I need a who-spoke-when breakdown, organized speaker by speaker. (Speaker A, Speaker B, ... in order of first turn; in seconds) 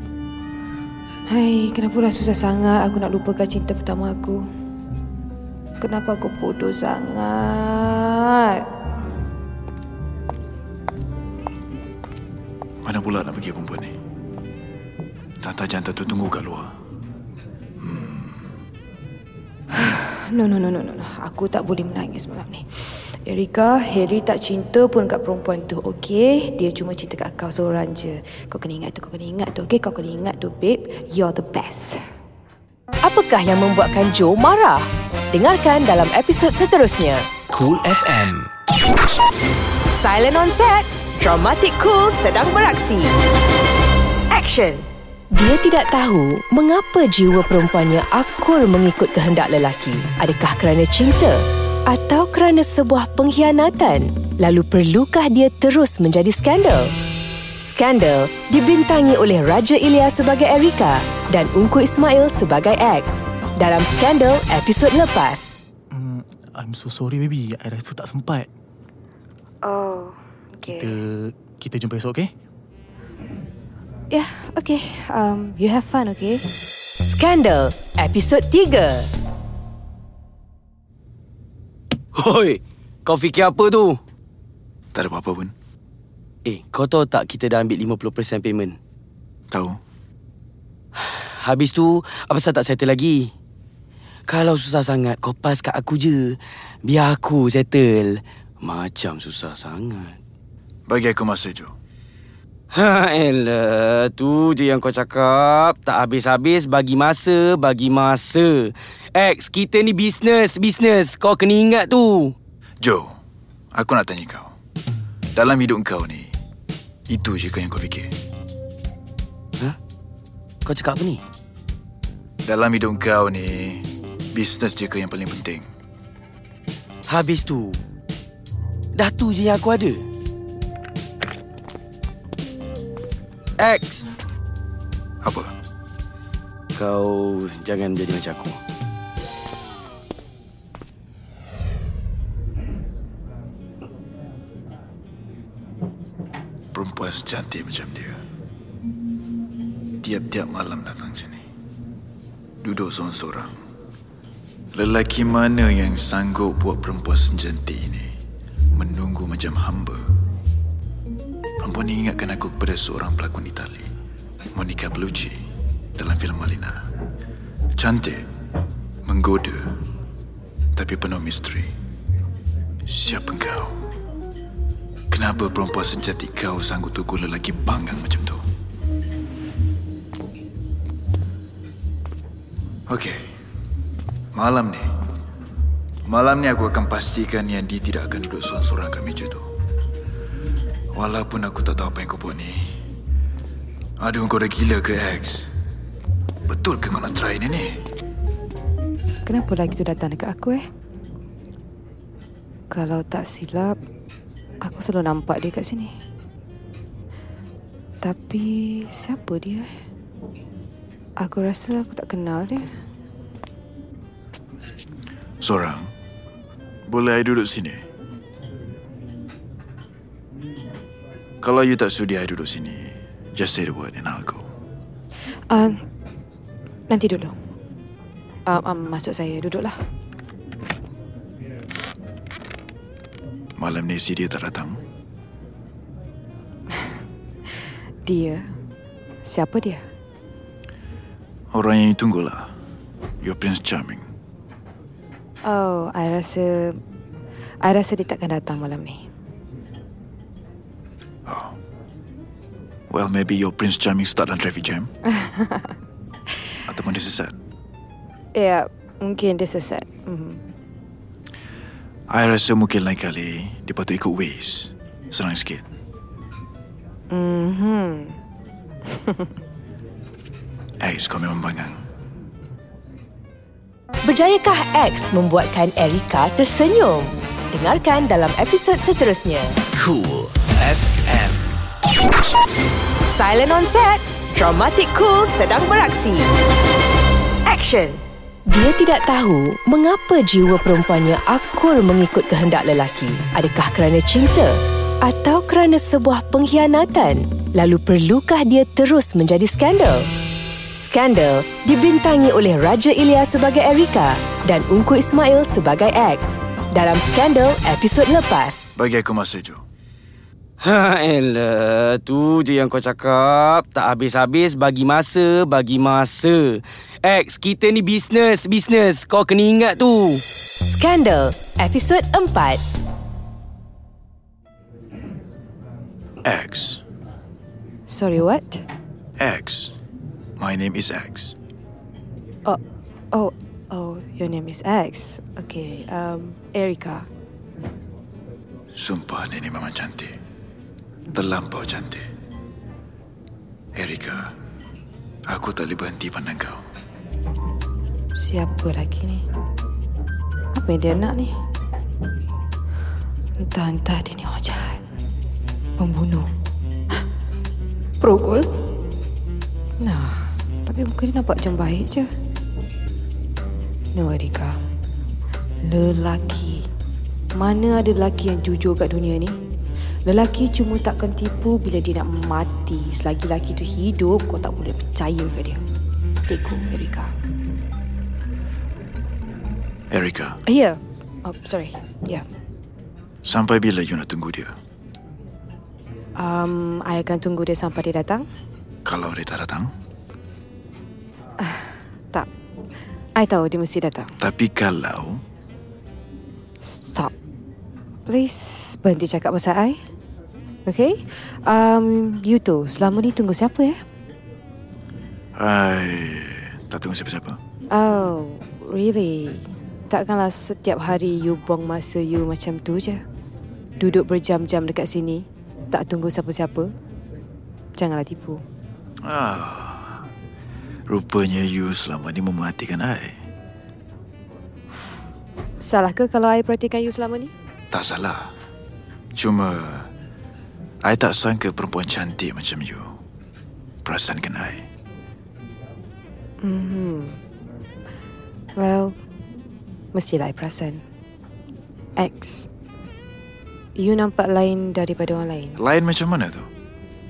Speaker A: 1.3-4.4, 5.8-8.7, 19.8-32.0, 69.6-70.9, 74.1-76.5, 199.3-200.7, 202.7-203.8, 204.6-205.9, 208.0-209.7, 211.2-212.7, 225.5-225.8, 226.9-227.3, 228.5-229.8, 238.1-238.5, 239.3-239.8, 245.4-246.8, 247.6-249.1, 255.2-255.7, 258.4-260.4, 267.1-268.2, 268.9-269.2, 327.9-328.6, 333.1-337.1, 348.2-349.2, 350.6-351.3, 353.4-354.8, 355.8-356.3, 359.8-362.1, 363.9-364.6, 365.6-366.6, 367.4-369.4, 370.1-375.6, 376.2-377.1, 380.5-382.2, 386.2-388.3, 391.4-392.3, 393.2-394.1, 396.6-397.1, 398.1-399.8, 400.7-403.8, 407.7-413.0, 413.8-416.7, 417.8-418.4, 425.6-427.3, 436.4-437.2, 438.6-439.0, 439.9-440.8, 442.0-442.5, 443.8-445.6
Speaker B: 12.8-13.9, 15.4-16.7, 17.8-18.4, 84.9-85.5, 89.5-89.8, 100.9-101.7, 112.8-113.2, 113.7-114.5, 115.3-116.3, 117.1-118.1, 122.5-125.7, 135.2-135.5, 146.7-148.2, 150.0-151.4, 152.6-153.6, 154.7-158.1, 158.8-160.0, 161.6-163.9, 164.6-165.4, 166.0-166.8, 167.8-168.2, 169.1-169.8, 170.8-171.7, 172.9-173.8, 175.1-178.4, 182.9-183.2, 184.3-184.9, 186.1-189.5, 190.9-192.7, 194.0-195.5, 196.5-197.9, 215.4-215.9, 216.9-217.8, 221.4-224.4, 233.6-234.8, 241.5-242.5, 243.2-244.1, 251.3-251.6, 252.9-254.9, 256.7-257.4, 262.1-265.6, 270.8-271.8, 308.8-309.6, 326.2-326.8, 329.2-329.8, 330.4-331.4, 338.8-340.2, 341.1-342.1, 343.8-344.3, 345.3-346.6, 379.9-380.4, 383.2-384.6, 388.9-389.7, 394.2-395.2, 405.4-407.4, 419.0-420.1, 420.9-423.2, 427.7-428.3, 429.1-429.9, 430.8-433.0, 433.9-434.7, 445.6-446.5
Speaker C: 33.0-37.3, 39.9-43.1, 44.3-56.9, 57.6-65.6, 77.0-79.1, 274.0-279.6, 283.0-286.3, 287.5-300.1, 300.7-308.7, 320.7-322.6
Speaker D: 37.5-38.5, 279.7-281.6
Speaker E: 65.9-68.5, 70.6-72.3, 358.0-358.4
Speaker F: 82.2-84.0, 86.5-88.8, 91.0-93.3, 94.3-100.2, 102.7-112.3, 120.7-121.2, 127.1-127.8, 129.0-130.1, 133.6-134.1, 136.8-138.6, 310.6-320.2